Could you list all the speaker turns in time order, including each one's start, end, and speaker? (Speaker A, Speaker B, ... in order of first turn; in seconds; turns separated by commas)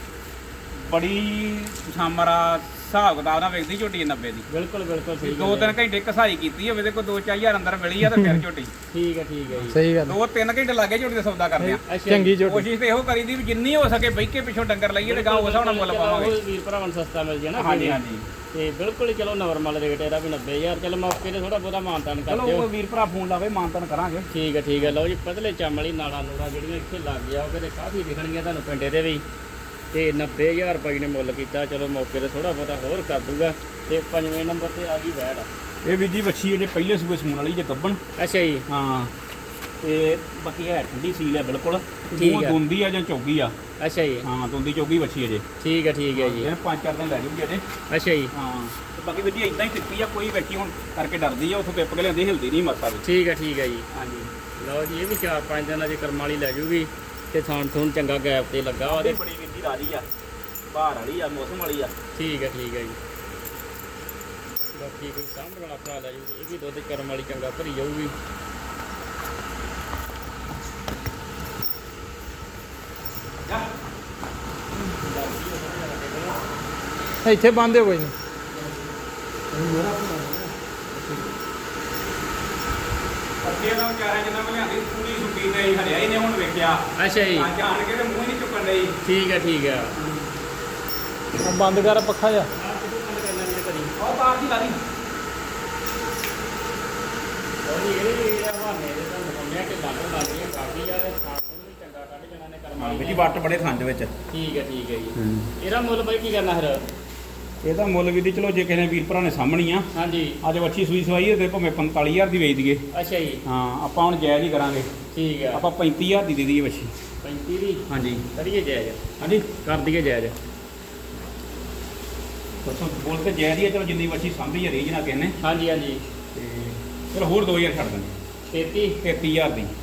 Speaker A: 0.7-4.5, Speaker B: 4.5-5.8, Speaker A: 5.2-8.7, Speaker B: 8.9-9.8, Speaker C: 9.7-10.1, Speaker A: 10.0-11.8, Speaker C: 11.6-12.6, Speaker B: 11.9-12.4, Speaker A: 12.4-16.4, Speaker B: 15.0-18.0, Speaker A: 17.6-18.3, Speaker B: 18.5-22.7, Speaker A: 22.2-25.0, Speaker B: 24.3-29.2, Speaker B: 29.9-35.5, Speaker A: 35.8-38.0, Speaker B: 38.2-38.6, Speaker A: 38.7-39.1, Speaker A: 39.8-43.5, Speaker B: 42.1-42.6, Speaker B: 43.8-44.3, Speaker A: 44.2-45.4, Speaker B: 45.6-46.5, Speaker A: 46.1-47.6, Speaker B: 47.9-48.3, Speaker A: 48.3-53.0, Speaker B: 53.0-53.9, Speaker A: 53.9-54.3, Speaker B: 54.6-59.2, Speaker A: 58.8-60.0, Speaker A: 60.7-61.9, Speaker B: 62.1-63.0, Speaker B: 64.7-68.1, Speaker B: 74.9-76.4, Speaker C: 77.2-78.1, Speaker C: 79.5-81.3, Speaker A: 83.4-86.8, Speaker B: 87.0-87.5, Speaker A: 87.3-89.0, Speaker B: 89.0-89.9, Speaker A: 90.0-90.3, Speaker C: 91.4-92.5, Speaker B: 92.5-93.9, Speaker A: 94.0-94.8, Speaker B: 97.7-103.4, Speaker A: 102.8-104.1, Speaker B: 104.3-106.8, Speaker A: 105.2-105.5, Speaker A: 107.6-109.9, Speaker B: 109.9-110.4, Speaker A: 110.4-112.8, Speaker B: 112.9-113.4, Speaker A: 113.5-114.9, Speaker B: 115.1-115.6, Speaker A: 115.5-116.9, Speaker B: 117.2-117.8, Speaker A: 117.9-118.2, Speaker B: 118.4-120.3, Speaker A: 119.2-119.5, Speaker A: 122.6-125.4, Speaker B: 125.4-126.0, Speaker A: 126.3-128.2, Speaker B: 128.5-129.0, Speaker A: 129.0-129.7